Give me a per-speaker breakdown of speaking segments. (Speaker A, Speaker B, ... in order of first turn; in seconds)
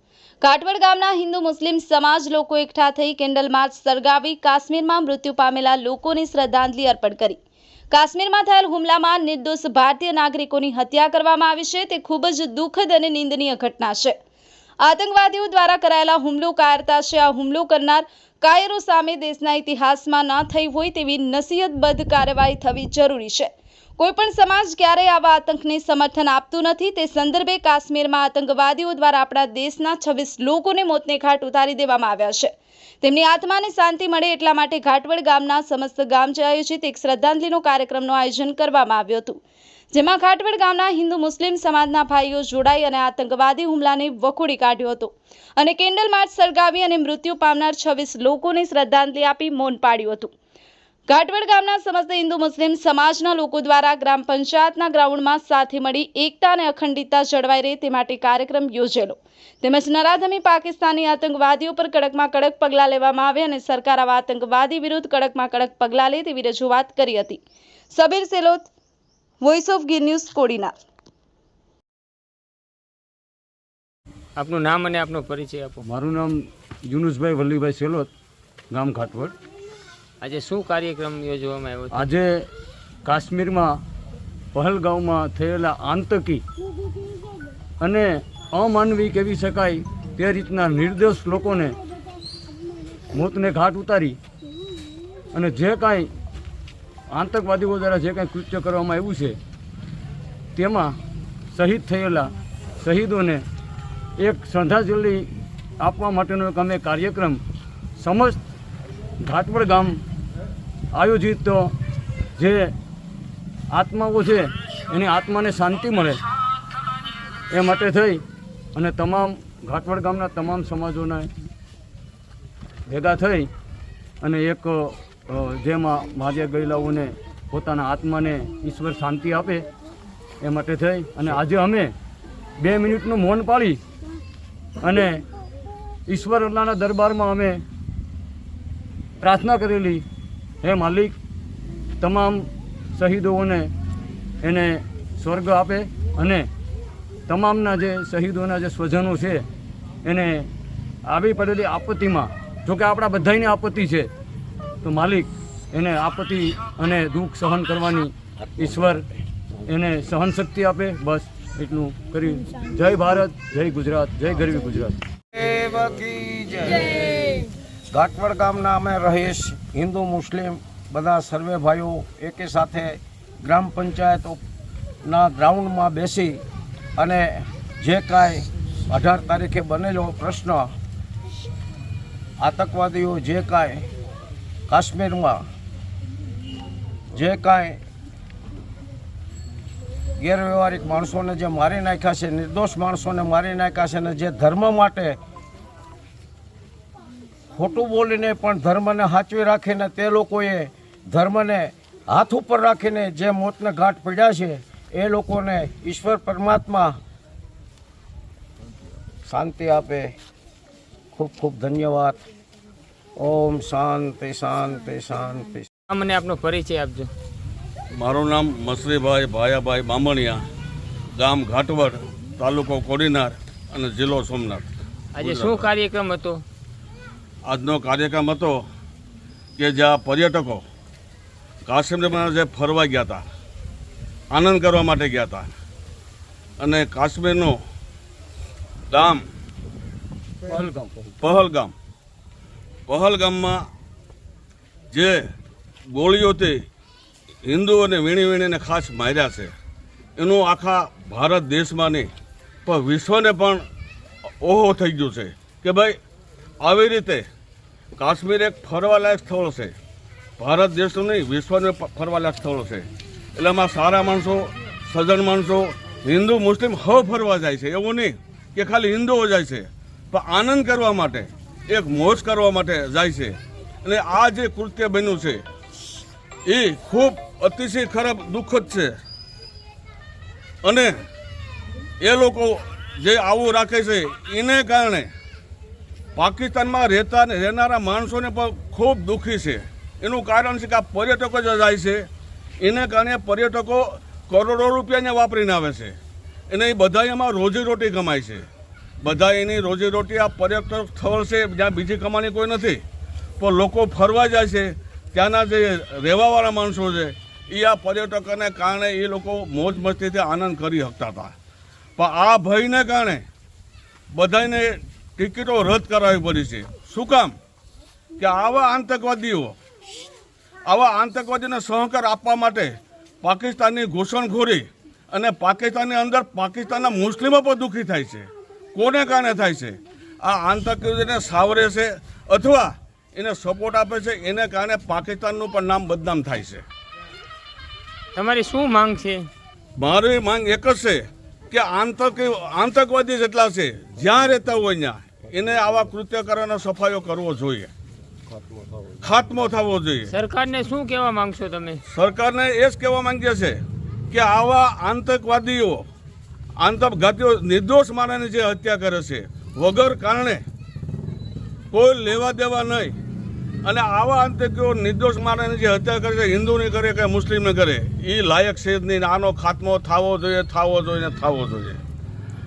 Speaker A: 0.4-7.4, 7.9-14.2, 14.8-32.5, 33.0-39.4, 39.9-50.3, 51.1-67.4, 67.9-68.7, 69.4-70.8
Speaker B: 74.4-75.8, 80.2-82.1, 215.9-217.1, 225.2-226.4, 338.1-339.3, 350.1-351.8
Speaker C: 75.8-78.1, 78.7-79.3, 81.9-82.5, 83.0-83.8, 84.5-86.4, 87.8-91.8, 93.1-94.2, 95.3-96.1, 97.1-99.4, 100.5-101.0, 101.5-103.4, 104.2-107.4, 108.0-108.5, 109.2-110.0, 110.9-111.7, 112.4-112.7, 113.7-116.2, 117.5-118.2, 118.8-121.3, 122.9-123.5, 124.2-129.7, 130.4-131.9, 132.6-133.8, 134.8-135.2, 136.1-137.6, 139.2-140.1, 140.6-141.2, 142.0-143.7, 144.4-146.5, 147.3-149.5, 150.0-150.5, 151.1-154.1, 154.8-159.1, 159.7-165.0, 240.5-241.1
Speaker D: 165.3-174.4, 175.1-176.4, 177.0-180.7, 182.4-183.9, 184.7-185.4, 187.1-187.8, 190.2-195.2, 197.5-207.0, 209.3-210.1, 211.2-212.2, 213.2-215.7
Speaker E: 217.9-220.4, 221.2-225.7, 227.5-228.6, 229.6-230.6, 231.7-233.3, 234.3-235.5, 236.6-237.6, 238.9-239.2, 241.2-241.7, 242.9-243.6, 244.9-245.2, 245.9-246.6, 247.4-249.5, 250.2-252.1, 252.7-253.6, 254.4-256.0, 256.6-257.3, 258.0-259.8, 260.4-275.4, 276.5-278.9, 280.6-281.0, 282.0-285.1, 286.2-292.1, 292.6-296.0, 296.5-298.5, 299.0-302.8, 303.4-311.4, 312.0-313.2, 314.1-317.4, 318.2-319.6, 320.7-336.6, 339.8-347.7, 349.0-350.1, 351.9-355.9, 356.6-360.4, 361.7-363.0, 363.6-371.8